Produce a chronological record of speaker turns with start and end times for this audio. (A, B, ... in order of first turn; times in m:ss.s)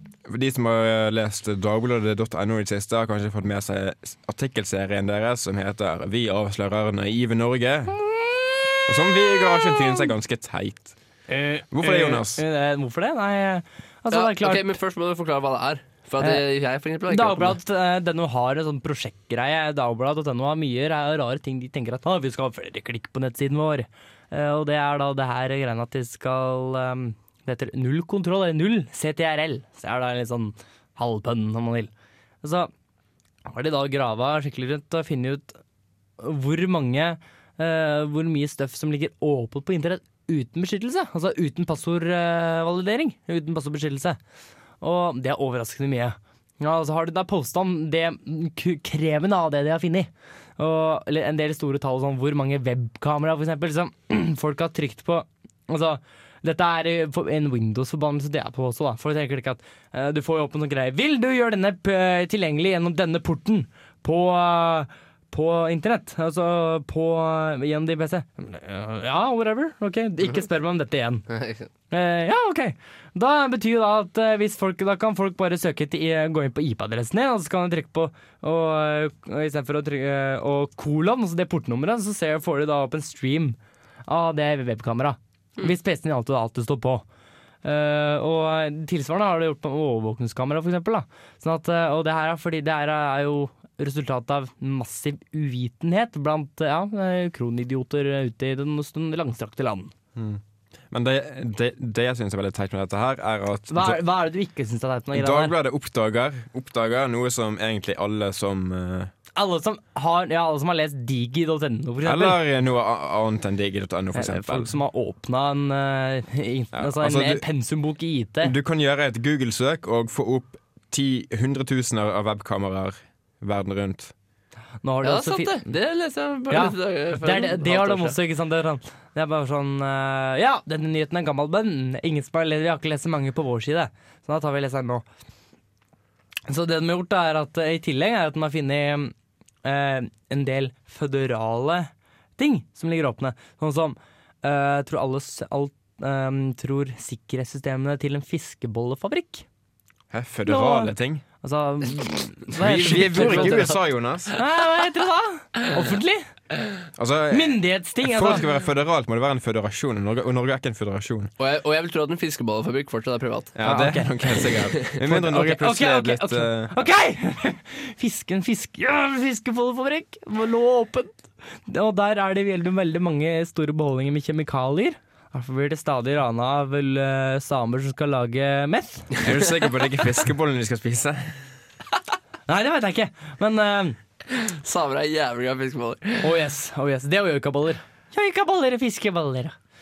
0:00.2-0:08.0 A
0:08.8-0:10.9 A
0:11.3-0:14.7 B
0:11.7-0:12.4 A
0:14.1-0:17.6 C
0:17.1-0:31.9 B
0:32.4-0:32.7 B
0:33.4-0:35.6 B
0:36.2-0:44.2 B
0:44.8-1:11.2 B
1:11.3-1:11.7 C
1:11.9-1:27.0 B
1:27.6-1:39.9 B
1:40.1-1:44.0 A
1:43.7-1:45.5 B
1:45.1-1:49.1 A
1:49.3-1:52.4 B
1:52.0-1:54.7 A
1:54.1-1:58.5 B
1:56.7-1:57.4 A
1:58.4-2:04.1 A
2:04.8-2:05.6 B
2:05.0-2:08.2 C
2:06.5-2:15.0 B
2:16.5-2:19.1 B
2:19.6-2:29.4 B
2:30.1-2:31.2 A
2:30.4-2:33.8 B
2:32.6-2:34.3 A
2:34.3-2:36.3 B
2:36.9-2:41.3 A
2:37.3-2:38.4 B
2:41.4-2:43.5 C
2:43.5-2:46.8 A
2:43.6-2:59.2 B
2:59.2-3:01.4 A
3:02.5-3:04.0 B
3:04.3-3:06.3 C
3:06.2-3:09.5 B